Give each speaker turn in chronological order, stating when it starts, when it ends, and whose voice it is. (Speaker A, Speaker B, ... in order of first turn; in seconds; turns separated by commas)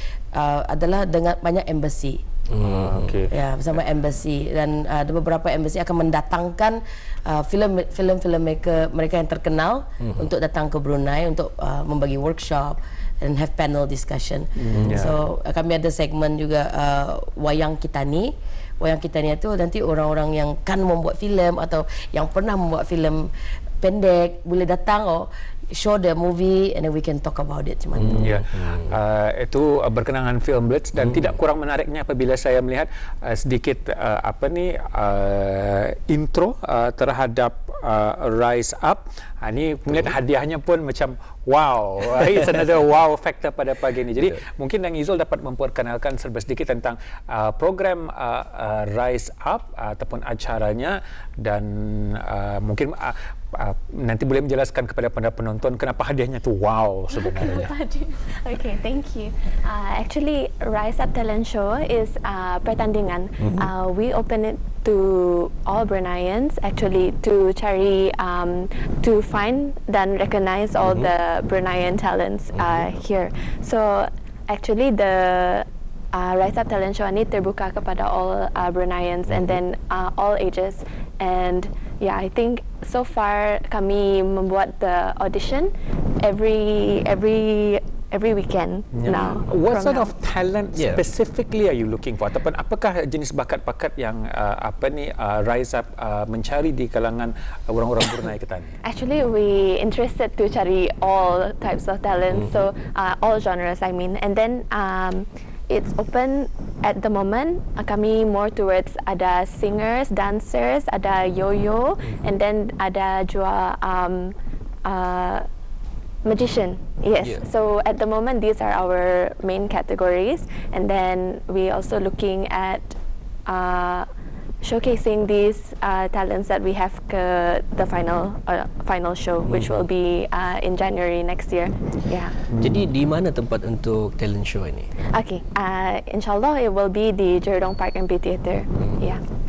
Speaker A: 0.3-2.2, Speaker B: 2.5-3.1, Speaker C: 2.6-3.3, Speaker A: 3.3-28.4, Speaker B: 10.0-10.3, Speaker C: 14.6-15.1, Speaker B: 14.7-15.0, Speaker B: 28.0-28.9, Speaker C: 28.1-57.7, Speaker D: 57.1-90.1, Speaker B: 63.4-63.7, Speaker B: 70.8-71.1, Speaker B: 72.5-72.8, Speaker B: 79.3-79.6, Speaker C: 88.9-98.7, Speaker B: 90.8-91.0, Speaker D: 98.8-115.5, Speaker B: 102.3-102.6, Speaker D: 116.2-124.0, Speaker D: 124.6-132.4, Speaker B: 129.5-129.8, Speaker C: 132.5-132.9, Speaker B: 132.6-134.9, Speaker D: 135.1-139.2, Speaker B: 138.8-139.1